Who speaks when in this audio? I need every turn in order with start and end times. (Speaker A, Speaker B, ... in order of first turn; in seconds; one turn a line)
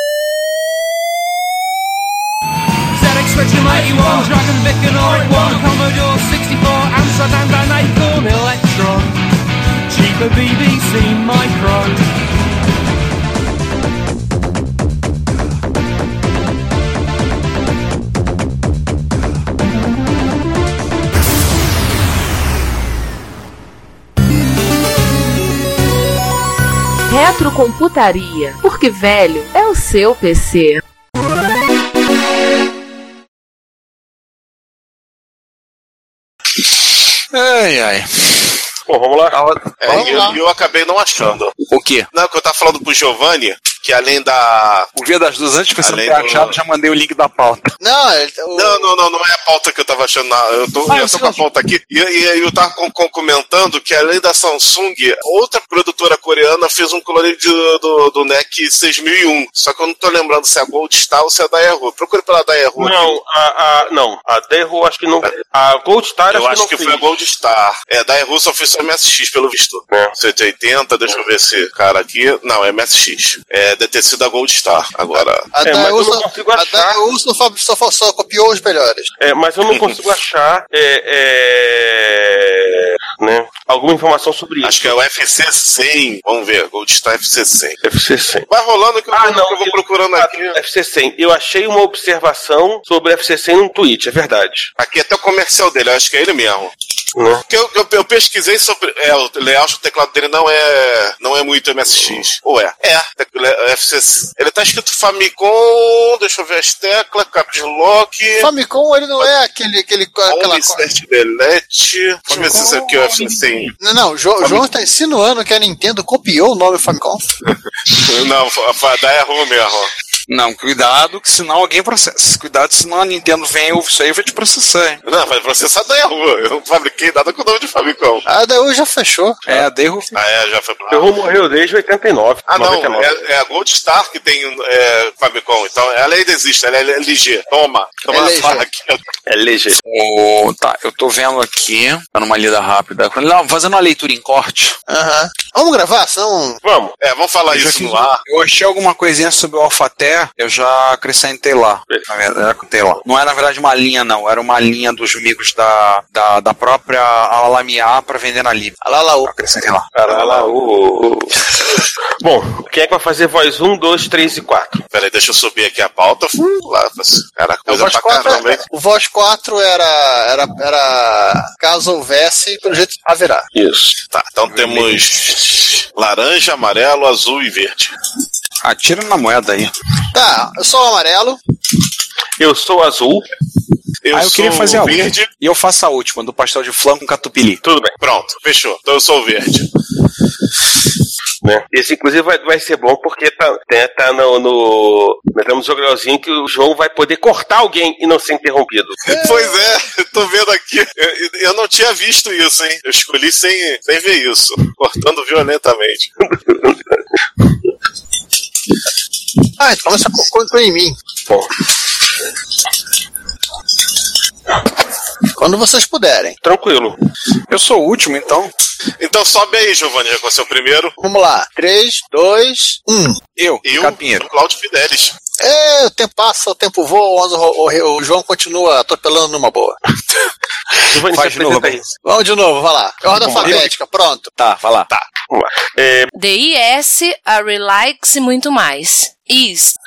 Speaker A: 2.9-9.2
Speaker A: 9.9-12.1
Speaker B: 27.1-30.8
Speaker C: 37.3-38.5
Speaker D: 38.9-39.4
Speaker C: 39.3-39.7
Speaker E: 39.8-41.5
Speaker F: 39.9-40.4
Speaker C: 41.7-42.1
Speaker E: 42.1-44.9
Speaker C: 45.0-47.7
Speaker E: 45.8-46.6
Speaker F: 47.8-48.9
Speaker E: 48.5-63.2
Speaker C: 50.9-51.4
Speaker D: 62.8-67.0
Speaker E: 66.3-75.5
Speaker F: 75.5-79.1
Speaker D: 75.6-77.0
Speaker D: 79.2-85.0
Speaker E: 84.6-87.8
Speaker D: 87.8-88.5
Speaker E: 88.5-90.6
Speaker D: 89.1-94.7
Speaker E: 94.8-96.7
Speaker D: 97.2-97.4
Speaker E: 97.5-108.5
Speaker F: 108.4-110.9
Speaker E: 110.3-113.7
Speaker C: 112.3-113.4
Speaker F: 113.8-117.2
Speaker E: 114.4-114.7
Speaker E: 117.9-119.9
Speaker C: 120.3-125.0
Speaker E: 125.0-128.2
Speaker F: 128.3-129.4
Speaker C: 129.5-130.1
Speaker E: 130.2-131.1
Speaker D: 130.9-133.2
Speaker E: 132.5-139.0
Speaker F: 138.1-138.7
Speaker D: 139.3-139.8
Speaker C: 139.9-144.8
Speaker F: 144.9-146.6
Speaker D: 146.6-146.9
Speaker E: 147.0-148.2
Speaker C: 147.5-159.9
Speaker F: 158.8-159.3
Speaker D: 159.9-161.4
Speaker E: 160.1-160.5
Speaker D: 162.2-164.8
Speaker E: 164.9-168.6
Speaker F: 167.7-173.5
Speaker D: 173.6-174.0
Speaker E: 174.1-177.9
Speaker C: 178.6-179.7
Speaker F: 180.1-181.4
Speaker D: 182.4-183.3
Speaker E: 184.0-185.3
Speaker C: 184.1-187.6
Speaker D: 187.6-187.9
Speaker E: 188.0-189.7
Speaker D: 191.4-199.0
Speaker E: 199.1-206.1
Speaker F: 199.1-199.8
Speaker D: 206.2-207.0
Speaker F: 209.6-211.0
Speaker F: 215.3-216.4
Speaker D: 216.4-217.0
Speaker C: 217.5-218.5
Speaker E: 219.0-221.0
Speaker F: 221.0-223.2
Speaker C: 223.4-224.3
Speaker E: 223.6-225.2
Speaker F: 225.4-229.8
Speaker D: 230.9-231.8
Speaker C: 231.1-231.9
Speaker F: 232.0-234.3
Speaker C: 233.2-233.8
Speaker C: 234.4-235.0
Speaker D: 235.3-236.1
Speaker B: 236.2-239.8